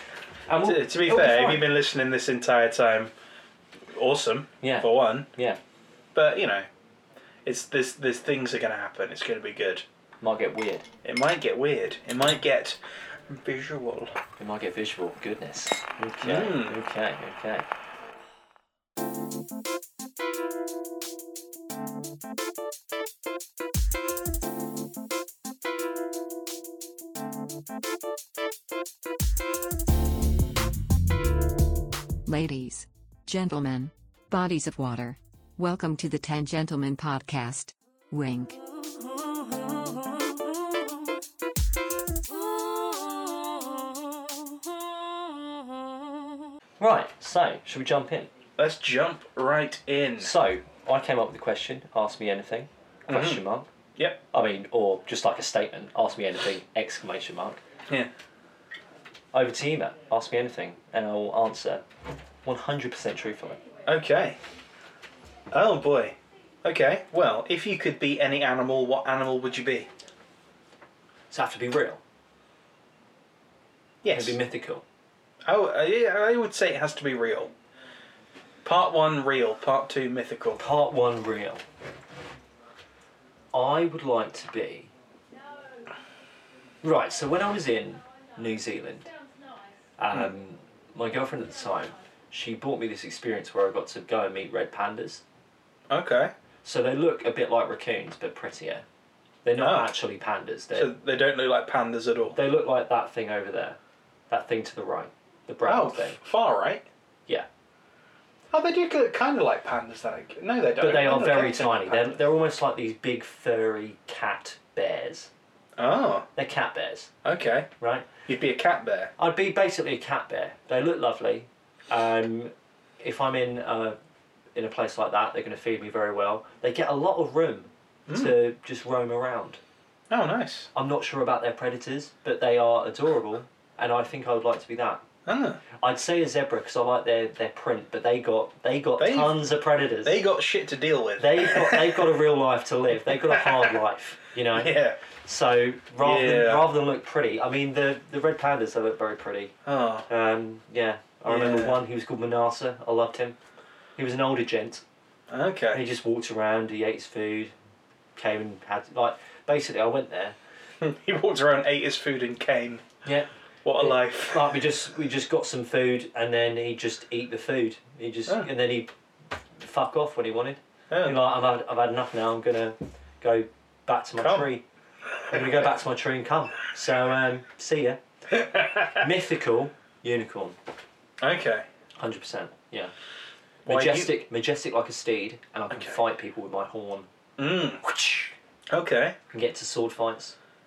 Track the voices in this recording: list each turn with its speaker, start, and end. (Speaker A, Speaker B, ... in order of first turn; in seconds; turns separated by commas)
Speaker A: 0.5-1.7, Speaker B: 0.6-3.1, Speaker B: 3.9-5.3, Speaker A: 4.6-5.6, Speaker B: 6.1-6.7, Speaker B: 7.4-9.8, Speaker A: 10.2-10.9, Speaker B: 11.0-14.1, Speaker A: 14.4-17.6, Speaker B: 16.2-16.8, Speaker C: 32.2-38.6, Speaker A: 46.8-48.3, Speaker B: 48.6-50.3, Speaker A: 50.2-53.7, Speaker B: 53.1-53.4, Speaker B: 54.0-54.2, Speaker A: 54.3-57.6, Speaker A: 59.3-61.8, Speaker A: 62.4-63.6, Speaker B: 63.9-64.4, Speaker B: 65.5-69.9, Speaker A: 71.3-72.0, Speaker B: 74.0-74.4, Speaker A: 74.1-74.8, Speaker B: 75.4-77.5, Speaker B: 78.6-80.6, Speaker A: 80.5-81.6, Speaker A: 83.5-84.9, Speaker A: 86.8-89.1, Speaker A: 90.0-95.2, Speaker B: 95.9-96.3, Speaker A: 96.6-98.8, Speaker A: 99.4-100.9, Speaker B: 99.6-99.9, Speaker B: 100.7-102.4, Speaker A: 102.3-103.8, Speaker A: 104.3-106.2, Speaker B: 105.7-106.8, Speaker B: 108.5-112.2, Speaker A: 110.8-115.3, Speaker B: 115.8-116.3, Speaker A: 116.3-117.1, Speaker B: 117.2-117.7, Speaker A: 117.8-118.1, Speaker B: 118.3-119.1, Speaker A: 119.2-124.0, Speaker A: 124.5-129.6, Speaker B: 128.1-128.4, Speaker B: 130.1-130.7, Speaker A: 130.7-135.0, Speaker B: 135.2-135.6, Speaker A: 135.8-140.2, Speaker B: 139.0-139.4, Speaker B: 140.0-142.1, Speaker A: 141.2-149.5, Speaker B: 143.1-143.8, Speaker B: 144.5-145.0, Speaker B: 146.0-146.7, Speaker B: 149.6-150.1, Speaker A: 150.1-153.4, Speaker B: 151.3-151.8, Speaker A: 153.9-154.8, Speaker B: 155.3-155.8, Speaker A: 155.7-157.5, Speaker A: 158.2-160.3, Speaker B: 160.8-162.8, Speaker A: 163.0-168.9, Speaker B: 163.6-164.6, Speaker A: 169.6-174.6, Speaker B: 170.9-171.2, Speaker B: 174.2-174.5, Speaker A: 175.3-178.0, Speaker B: 178.3-179.0, Speaker A: 178.9-180.6, Speaker B: 181.2-181.7, Speaker A: 182.0-182.9, Speaker A: 183.6-187.1, Speaker B: 183.7-184.1, Speaker B: 185.7-186.0, Speaker B: 187.4-187.9, Speaker A: 188.0-188.3, Speaker B: 188.7-189.2, Speaker A: 189.3-190.4